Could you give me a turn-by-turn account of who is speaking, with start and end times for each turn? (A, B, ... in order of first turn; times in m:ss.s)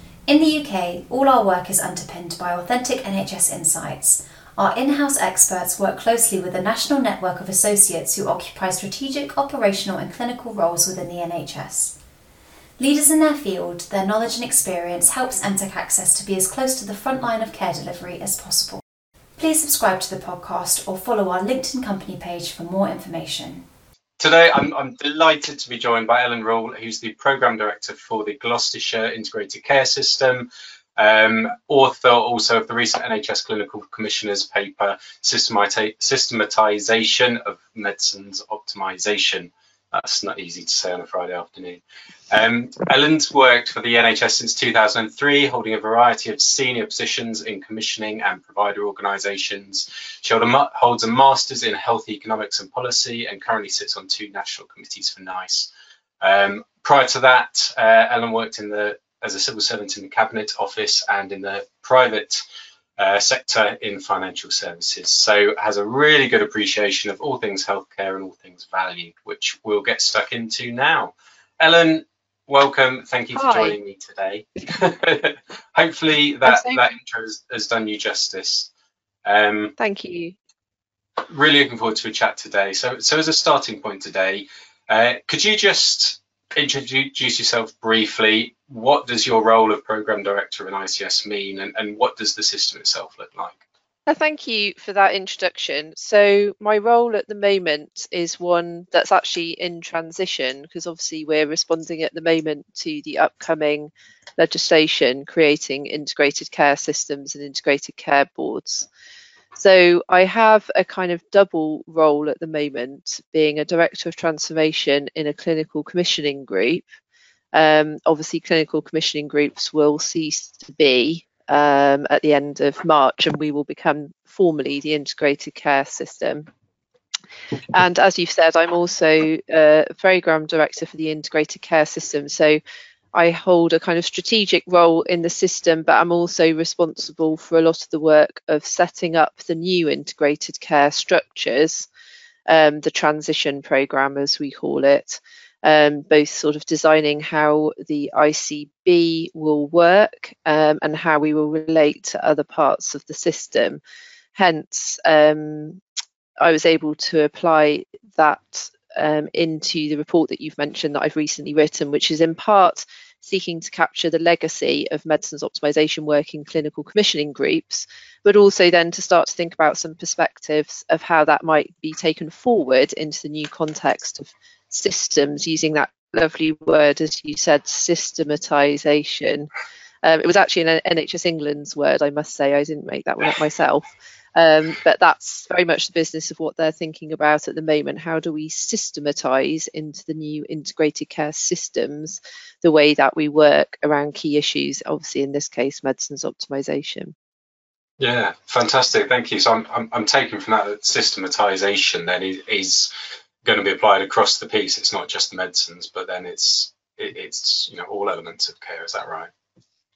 0:00.3-0:12.0 A
0:12.8-0:18.8 A
0:19.4-0:23.6 A
0:24.2-0:55.7 B
0:56.2-1:02.4 B
1:03.0-1:18.7 B
1:13.4-1:13.8 C
1:16.5-1:16.8 C
1:19.2-1:19.7 B
1:19.8-1:20.4 C
1:21.3-1:33.6 B
1:34.1-1:48.9 C
1:49.6-1:56.9 C
1:57.5-2:06.5 C
2:07.7-2:12.6 C
2:13.1-2:21.9 C
2:22.5-2:33.8 C
2:34.4-2:35.8 C
2:36.4-2:59.5 C
3:00.0-3:17.1 C
3:18.0-3:22.9 B
3:23.4-3:29.3 B